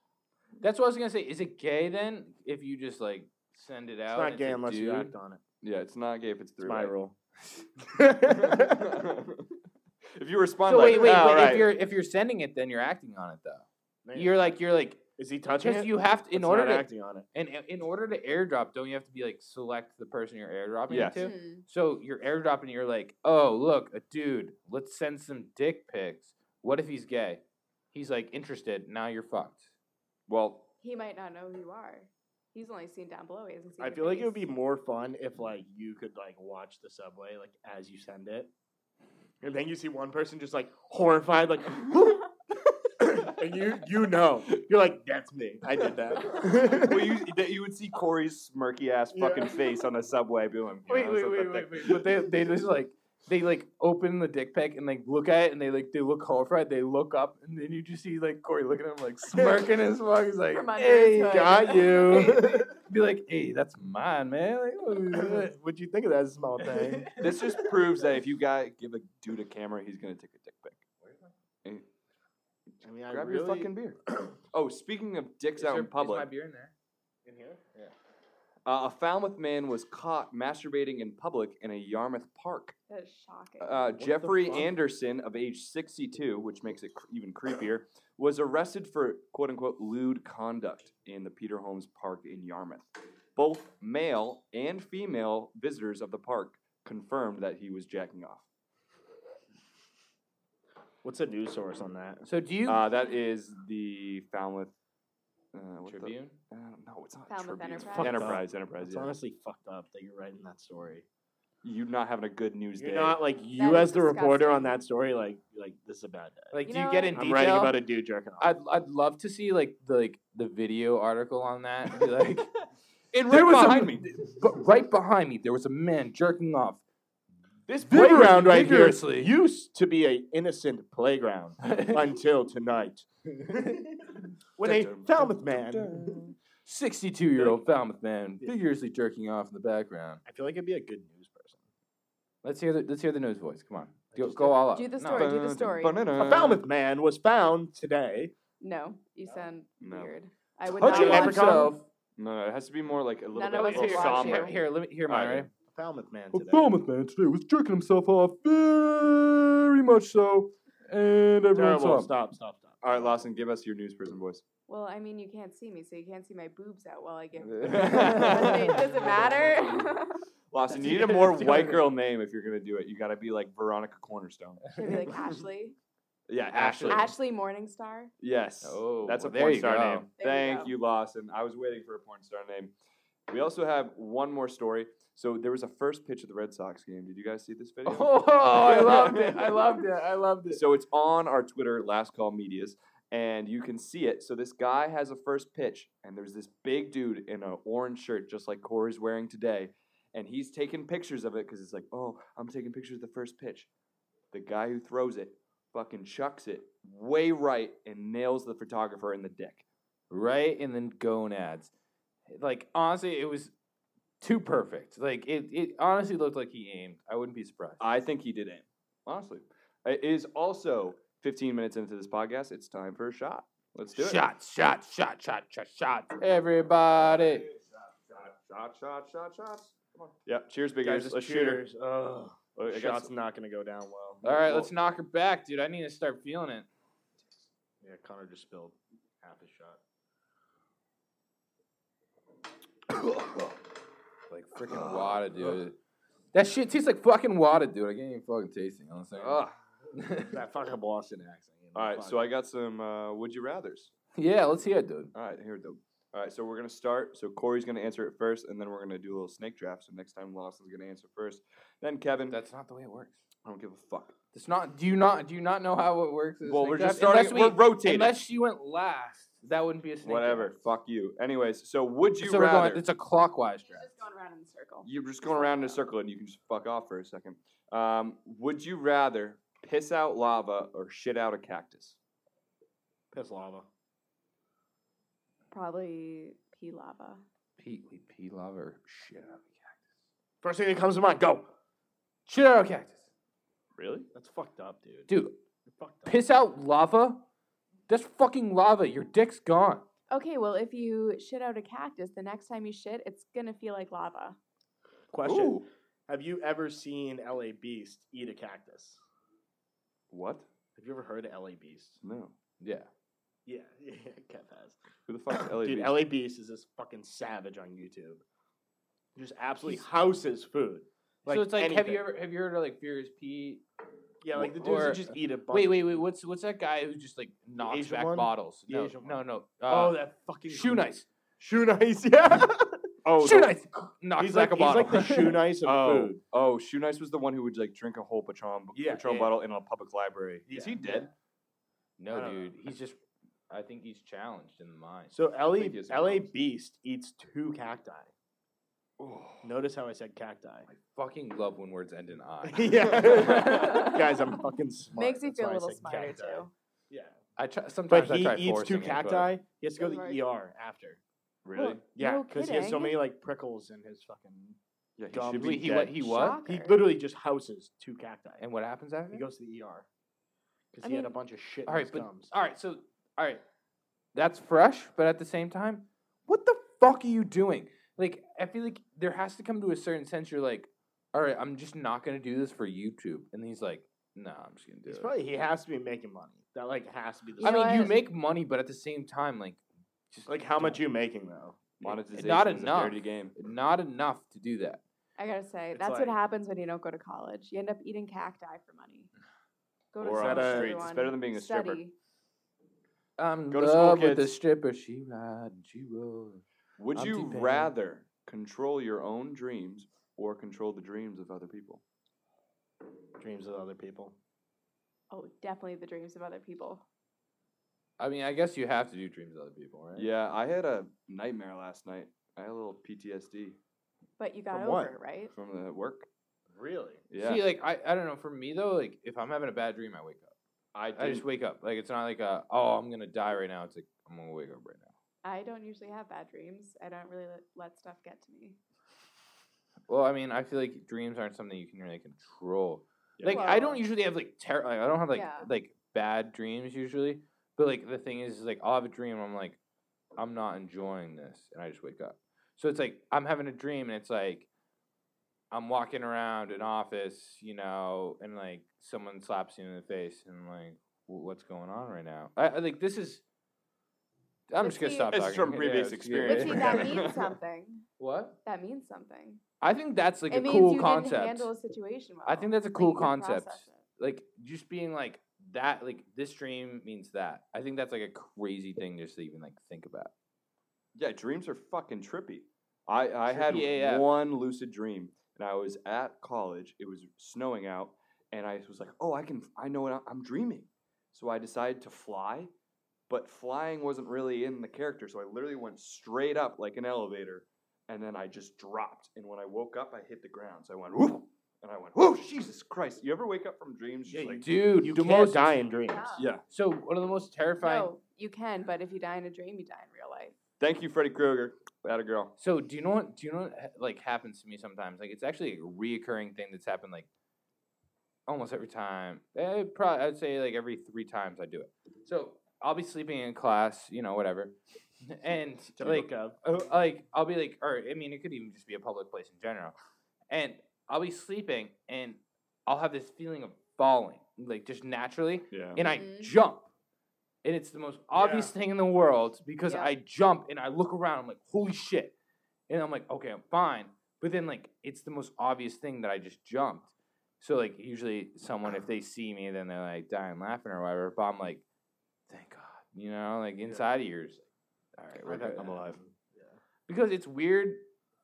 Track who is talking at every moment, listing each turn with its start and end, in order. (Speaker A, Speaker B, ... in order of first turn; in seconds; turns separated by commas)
Speaker A: 0.6-5.1, Speaker B: 4.1-5.4, Speaker C: 5.6-6.9, Speaker B: 6.6-7.2, Speaker B: 7.8-8.9, Speaker C: 8.3-9.5, Speaker C: 10.1-11.7, Speaker A: 10.7-15.0, Speaker B: 14.0-14.5, Speaker B: 15.2-17.2, Speaker A: 15.5-27.4, Speaker C: 20.9-21.3, Speaker D: 21.1-21.6, Speaker A: 27.9-29.7, Speaker C: 30.3-30.7, Speaker D: 30.8-34.4, Speaker B: 33.8-38.5, Speaker B: 39.4-47.2, Speaker C: 46.7-52.1, Speaker B: 49.1-49.6, Speaker A: 50.9-65.5, Speaker B: 59.3-59.6, Speaker D: 60.5-62.3, Speaker B: 61.2-62.7, Speaker B: 65.1-67.2, Speaker A: 66.6-67.6, Speaker C: 67.2-70.8, Speaker A: 71.0-71.3, Speaker B: 72.8-74.3, Speaker C: 73.1-76.3, Speaker A: 75.6-76.7, Speaker B: 77.2-77.8, Speaker C: 78.7-82.8, Speaker D: 82.9-83.9, Speaker C: 83.6-98.5, Speaker B: 84.0-84.7, Speaker B: 101.0-102.2, Speaker A: 102.2-102.8, Speaker C: 102.6-104.7, Speaker C: 105.5-109.1, Speaker A: 105.8-106.4, Speaker D: 107.3-108.4, Speaker B: 107.9-111.0, Speaker C: 111.6-113.2, Speaker B: 112.8-116.6, Speaker D: 113.5-114.7, Speaker A: 116.5-117.8, Speaker D: 116.7-117.6, Speaker B: 117.1-118.5, Speaker A: 118.4-122.6, Speaker C: 123.1-124.1, Speaker A: 123.2-126.8, Speaker B: 127.7-136.2, Speaker A: 127.8-129.3, Speaker A: 131.6-132.0, Speaker C: 134.6-136.3, Speaker A: 136.7-140.2, Speaker B: 140.2-141.6, Speaker A: 142.4-145.3, Speaker B: 144.1-144.6, Speaker D: 144.7-146.0, Speaker C: 145.1-146.6, Speaker B: 146.1-148.3, Speaker D: 148.6-151.7, Speaker C: 149.8-150.1, Speaker C: 150.8-151.6, Speaker A: 150.8-151.8, Speaker B: 150.8-151.8, Speaker C: 152.2-155.5, Speaker D: 153.3-154.6, Speaker A: 153.5-155.5, Speaker B: 155.7-156.7, Speaker A: 156.3-162.1, Speaker B: 161.5-163.2, Speaker C: 162.8-164.4, Speaker D: 164.7-170.2, Speaker A: 167.4-169.2, Speaker C: 167.6-168.9, Speaker C: 170.5-174.6, Speaker A: 170.7-171.8, Speaker D: 174.8-175.8, Speaker C: 176.3-177.1, Speaker A: 176.5-177.1, Speaker D: 176.9-178.1, Speaker C: 178.2-182.7, Speaker A: 178.6-180.1, Speaker D: 180.2-180.7, Speaker C: 183.3-189.7, Speaker A: 187.8-190.6, Speaker C: 190.5-203.7, Speaker C: 204.3-209.6, Speaker A: 210.1-211.7, Speaker A: 212.3-213.5, Speaker A: 214.2-217.8, Speaker C: 217.8-224.2, Speaker A: 223.9-227.4, Speaker C: 226.9-231.6, Speaker B: 230.8-234.2, Speaker C: 232.6-233.1, Speaker C: 234.2-234.7, Speaker A: 234.2-236.7, Speaker B: 237.8-239.8, Speaker A: 244.3-245.8, Speaker C: 244.7-245.2, Speaker A: 246.3-249.4, Speaker C: 249.2-249.6, Speaker A: 249.9-250.4, Speaker B: 250.3-252.2, Speaker C: 251.7-253.9, Speaker A: 254.1-255.1, Speaker C: 255.1-262.4, Speaker A: 262.3-263.2, Speaker C: 263.4-264.1, Speaker A: 264.3-270.6, Speaker C: 266.4-268.2, Speaker C: 270.0-272.8, Speaker A: 272.2-273.9, Speaker D: 273.6-275.8, Speaker C: 274.8-282.0, Speaker B: 283.1-283.6, Speaker D: 285.5-287.2, Speaker A: 287.6-289.8, Speaker B: 290.4-291.4, Speaker A: 292.2-293.0, Speaker C: 293.8-294.1, Speaker B: 294.1-295.1, Speaker A: 295.1-295.4, Speaker B: 295.7-296.2, Speaker A: 296.0-297.2, Speaker A: 297.9-299.8, Speaker D: 300.1-304.4, Speaker B: 305.1-309.0, Speaker C: 305.2-305.6, Speaker C: 310.1-310.5, Speaker B: 310.8-312.0, Speaker C: 312.0-312.3, Speaker A: 312.6-312.9, Speaker B: 313.4-314.8, Speaker C: 315.1-316.1, Speaker B: 315.3-318.2, Speaker B: 319.1-322.1, Speaker A: 321.2-323.6, Speaker B: 324.2-326.0, Speaker A: 324.3-331.1, Speaker B: 327.6-332.9, Speaker C: 333.0-333.5, Speaker A: 333.2-335.5, Speaker B: 334.2-336.2, Speaker C: 335.6-341.1, Speaker B: 338.7-339.4, Speaker B: 340.5-341.1, Speaker A: 342.0-343.0, Speaker B: 342.1-342.5, Speaker A: 343.5-345.1, Speaker B: 345.1-348.1, Speaker C: 345.6-346.3, Speaker C: 349.0-349.5, Speaker B: 349.4-350.7, Speaker A: 350.7-354.0, Speaker B: 352.4-357.2, Speaker D: 353.5-354.1, Speaker D: 354.9-356.5, Speaker A: 357.4-359.3, Speaker B: 357.9-361.0, Speaker D: 359.8-360.2, Speaker C: 361.4-361.8, Speaker D: 361.6-363.0, Speaker B: 361.9-364.6, Speaker C: 365.0-365.9, Speaker B: 365.1-368.4, Speaker A: 365.3-366.4, Speaker D: 366.0-366.8, Speaker A: 368.4-369.3, Speaker B: 369.1-369.9, Speaker B: 370.7-372.3, Speaker D: 370.8-371.1, Speaker A: 371.6-373.4, Speaker A: 374.1-385.1, Speaker B: 384.9-387.9, Speaker D: 387.4-388.0, Speaker A: 387.4-390.8, Speaker B: 390.3-391.6, Speaker C: 391.8-393.3, Speaker A: 391.8-394.8, Speaker D: 395.2-399.1, Speaker B: 395.7-396.1, Speaker D: 399.9-401.9, Speaker C: 400.0-401.8, Speaker B: 400.1-400.8, Speaker A: 403.2-407.7, Speaker C: 403.5-404.3, Speaker C: 406.8-411.8, Speaker B: 413.2-414.1, Speaker D: 415.1-416.8, Speaker A: 418.0-420.1, Speaker C: 419.9-423.6, Speaker D: 424.2-425.3, Speaker B: 424.5-424.9, Speaker C: 425.3-426.1, Speaker B: 426.5-427.0, Speaker C: 427.1-427.4, Speaker A: 427.2-430.3, Speaker C: 430.7-431.2, Speaker A: 430.9-434.9, Speaker D: 435.2-438.6, Speaker A: 439.9-449.6, Speaker C: 443.2-443.5, Speaker D: 443.2-443.8, Speaker D: 445.1-445.5, Speaker A: 450.1-454.5, Speaker A: 455.5-463.2, Speaker A: 464.5-467.0, Speaker D: 464.6-465.1, Speaker C: 465.1-467.3, Speaker D: 466.2-467.9, Speaker A: 468.0-468.4, Speaker D: 468.4-469.4, Speaker A: 469.6-471.5, Speaker D: 470.3-473.8, Speaker A: 472.2-480.1, Speaker C: 480.9-492.5, Speaker A: 483.3-484.1, Speaker C: 493.1-504.5, Speaker B: 504.1-506.2, Speaker A: 504.4-505.6, Speaker D: 505.9-506.2, Speaker C: 506.1-506.4, Speaker A: 506.4-507.9, Speaker D: 507.6-510.4, Speaker C: 510.6-512.3, Speaker A: 512.4-517.1, Speaker A: 518.3-529.7, Speaker B: 525.8-526.4, Speaker A: 530.3-536.6, Speaker C: 535.5-535.8, Speaker D: 535.8-536.3, Speaker A: 537.4-542.1, Speaker B: 538.1-538.5, Speaker D: 539.7-539.9, Speaker A: 542.7-551.6, Speaker A: 552.3-554.4, Speaker A: 555.0-555.9, Speaker B: 555.2-556.6, Speaker A: 556.9-557.8